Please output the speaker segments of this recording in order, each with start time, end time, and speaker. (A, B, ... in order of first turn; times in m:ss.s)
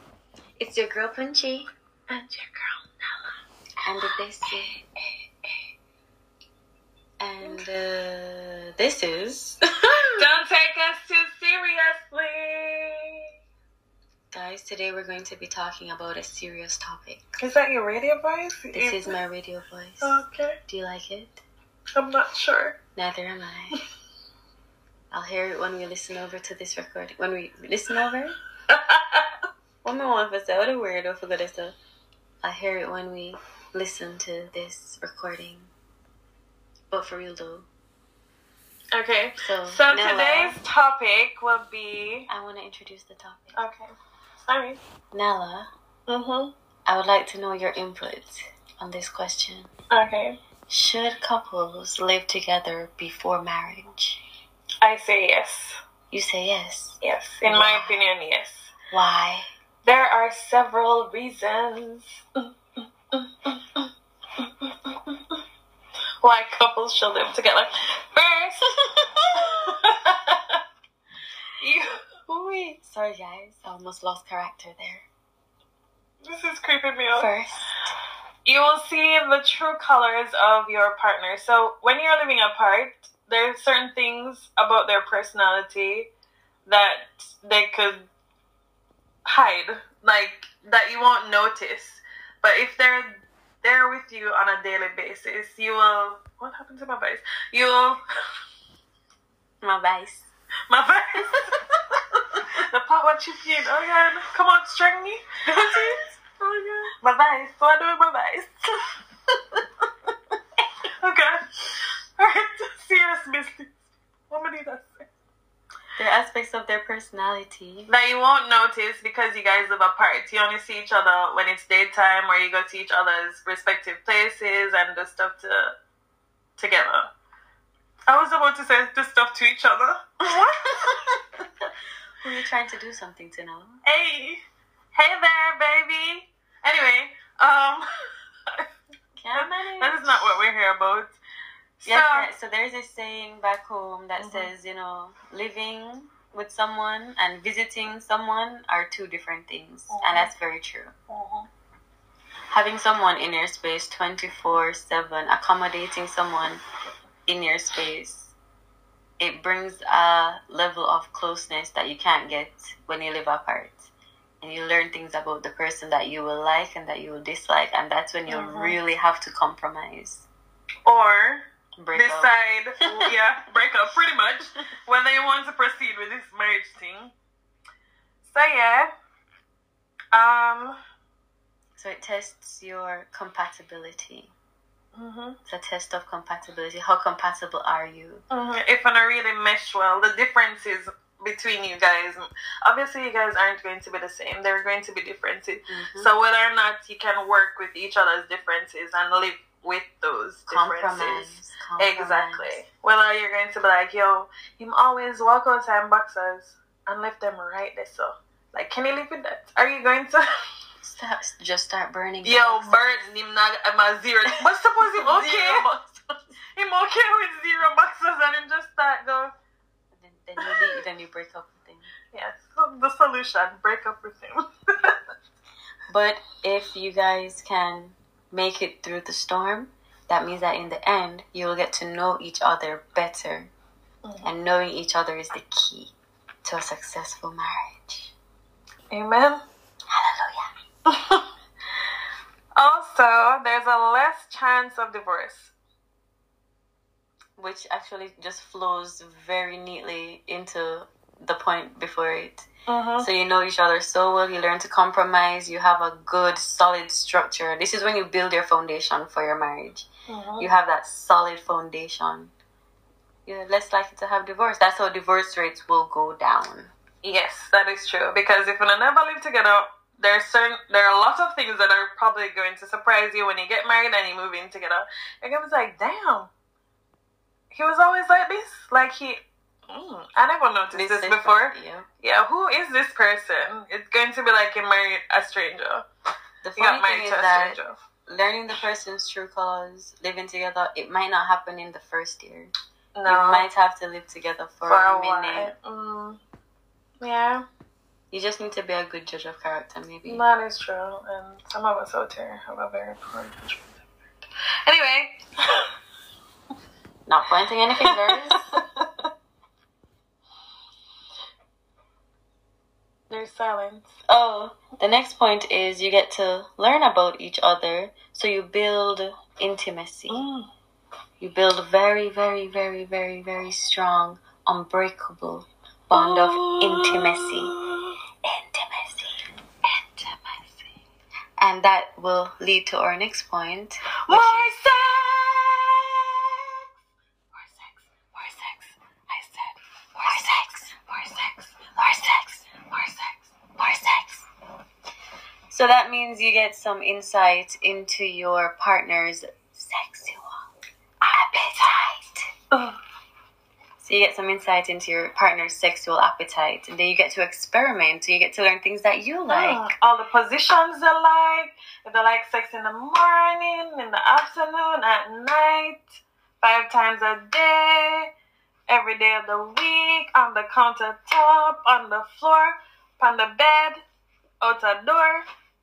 0:00.6-0:01.7 A
0:02.1-0:03.3 B
0:03.8-0:04.8 A
0:07.2-0:09.6 A
0:10.2-0:13.0 B
0:14.3-0:17.2 A
0:17.4-0:19.1 B
0:18.7-0:21.4 A
0:20.0-0:20.6 B
0:21.9-0:22.8 B
0:23.0-0:23.8 A
0:25.1-0:28.4 A
0:28.7-0:29.3 B
0:29.8-0:31.7 A
0:32.4-0:35.7 A
0:36.9-0:37.7 A
0:38.9-0:42.3 B
0:39.4-0:40.6 A
0:42.3-0:43.6 A
0:43.6-0:43.9 B
0:44.4-0:44.8 B
0:45.1-0:45.7 A
0:46.1-0:46.5 B
0:46.9-0:49.7 A
0:49.9-0:50.4 B
0:50.7-0:54.2 A
0:54.8-0:55.8 B
0:56.1-0:58.0 A
0:57.0-0:58.7 B
0:58.9-0:59.5 A
0:59.8-1:02.2 B
1:03.1-1:03.9 B
1:04.4-1:05.4 B
1:06.2-1:08.7 B
1:09.4-1:10.6 B
1:11.6-1:11.9 B
1:12.3-1:15.1 A
1:16.3-1:17.3 B
1:17.1-1:17.7 A
1:18.4-1:26.1 B
1:26.6-1:28.1 B
1:29.2-1:38.0 B
1:39.6-1:40.3 A
1:40.7-1:46.0 B
1:45.5-1:46.8 A
1:46.8-1:48.5 B
1:51.0-1:53.8 B
1:54.3-1:55.1 B
1:56.0-1:57.9 A
1:57.9-2:05.7 B
2:06.6-2:07.1 B
2:08.1-2:11.1 B
2:12.2-2:13.8 A
2:13.8-2:14.4 B
2:14.9-2:17.8 B
2:19.2-2:20.4 A
2:19.3-2:21.2 B
2:21.8-2:22.3 B
2:21.8-2:30.9 A
2:24.2-2:24.5 B
2:29.9-2:30.3 B
2:31.1-2:31.5 B
2:32.5-2:36.6 A
2:37.3-2:38.3 A
2:39.2-2:43.9 A
2:44.4-2:50.2 A
2:48.3-2:48.8 B
2:50.8-2:51.4 B
2:51.8-2:52.3 A
2:51.9-2:57.1 B
2:58.2-2:58.9 B
3:00.1-3:00.8 B
3:01.8-3:04.3 A
3:05.0-3:05.4 B
3:05.4-3:08.2 A
3:08.3-3:30.2 B
3:15.7-3:16.1 A
3:20.5-3:22.6 A
3:30.8-3:33.1 A
3:32.2-3:35.8 B
3:34.2-3:36.0 A
3:36.6-3:39.3 B
3:39.9-3:41.9 A
3:40.4-3:40.7 B
3:42.1-3:45.0 B
3:45.9-3:53.5 A
3:54.2-3:58.1 A
3:58.9-3:59.4 B
3:59.9-4:00.5 A
4:00.9-4:01.3 B
4:02.6-4:05.5 B
4:07.4-4:12.5 A
4:12.7-4:13.1 B
4:13.0-4:19.8 A
4:20.1-4:20.5 B
4:20.4-4:22.3 A
4:23.2-4:26.7 A
4:27.0-4:36.3 B
4:37.5-4:45.8 B
4:40.7-4:41.9 A
4:46.4-4:52.5 A
4:46.6-4:47.8 B
4:52.9-4:53.4 B
4:53.0-4:55.5 A
4:54.6-4:56.2 B
4:57.0-4:57.4 B
4:58.1-5:00.2 A
5:00.0-5:03.8 B
5:04.6-5:05.7 B
5:07.0-5:08.5 A
5:07.8-5:08.8 B
5:13.1-5:13.9 B
5:14.1-5:20.2 A
5:20.1-5:20.5 B
5:21.2-5:27.6 A
5:25.9-5:27.9 B
5:28.2-5:29.2 A
5:29.7-5:30.5 B
5:31.4-5:34.5 A
5:34.1-5:36.6 B
5:37.3-5:44.2 B
5:45.5-5:50.4 A
5:51.0-5:52.3 A
5:52.5-5:52.8 B
5:53.8-5:59.6 A
5:59.3-6:08.1 B
6:08.7-6:13.8 B
6:14.4-6:15.2 B